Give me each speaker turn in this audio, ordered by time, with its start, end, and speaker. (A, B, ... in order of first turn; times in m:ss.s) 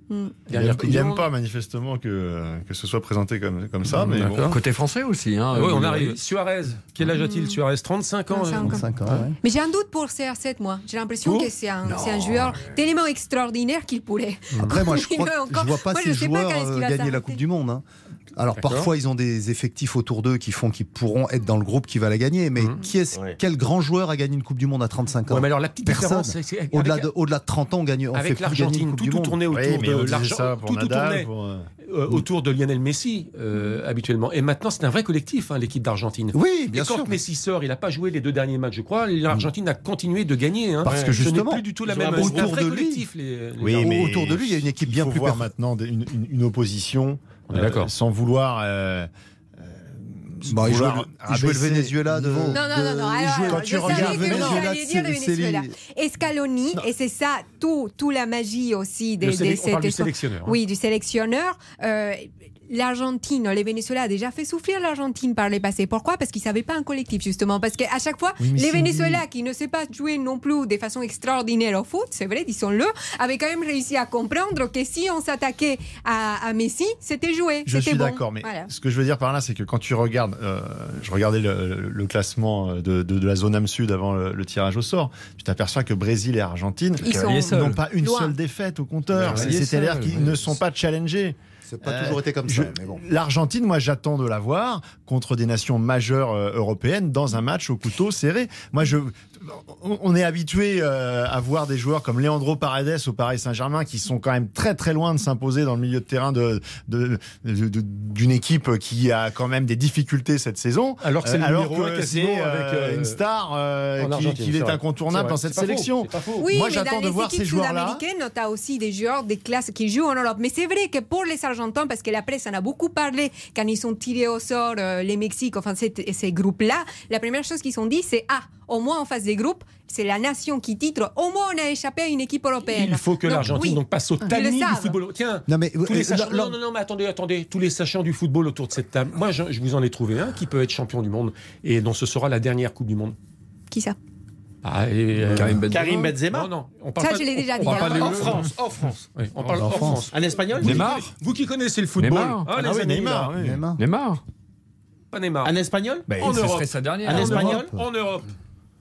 0:00.1-0:00.3 A
0:00.5-0:01.2 B
0:00.5-0:04.5 C
0:03.9-0:06.2 D
0:03.9-0:04.6 B
0:05.5-0:09.3 B
0:07.0-0:07.6 A
0:08.3-0:08.8 A
0:08.6-0:09.3 E
0:09.4-0:17.4 A
0:11.8-0:12.7 D
0:14.6-0:17.8 E
0:18.4-0:29.4 E
0:18.5-0:18.9 B
0:23.1-0:23.4 F
0:25.3-0:27.1 B
0:28.1-0:31.3 B
0:29.5-0:31.7 C
0:31.8-0:44.0 B
0:36.3-0:37.2 E
0:40.8-0:41.6 E
0:40.9-0:41.2 F
0:41.8-0:42.6 F
0:42.2-0:43.0 E
0:43.6-0:49.1 C
0:43.8-0:45.5 E
0:47.5-0:47.9 B
0:49.6-0:52.6 C
0:50.5-0:55.7 E
0:52.5-1:18.7 A
0:53.4-0:54.7 C
0:59.2-1:00.6 B
1:08.4-1:09.2 C
1:17.6-1:58.0 C
1:27.0-1:27.8 D
1:27.0-1:28.3 A
1:29.2-1:30.6 E
1:29.2-1:30.3 D
1:31.7-1:33.0 E
1:51.0-1:53.2 B
1:54.0-1:56.4 B
1:56.4-2:14.9 A
2:12.7-2:23.2 B
2:15.5-2:16.6 E
2:23.7-2:24.0 A
2:24.6-2:25.7 B
2:25.3-2:26.1 D
2:25.6-2:26.5 F
2:26.3-2:28.3 B
2:27.0-2:28.4 A
2:27.6-2:28.5 D
2:27.9-2:29.0 F
2:29.1-2:33.3 B
2:29.4-2:30.1 E
2:29.6-2:30.9 F
2:30.6-2:31.1 D
2:32.0-2:32.5 D
2:32.5-2:33.6 C
2:33.3-2:33.8 E
2:33.8-2:34.2 D
2:35.1-2:35.5 B
2:35.4-2:36.1 F
2:36.1-2:37.6 D
2:36.2-2:38.3 B
2:37.0-2:37.7 F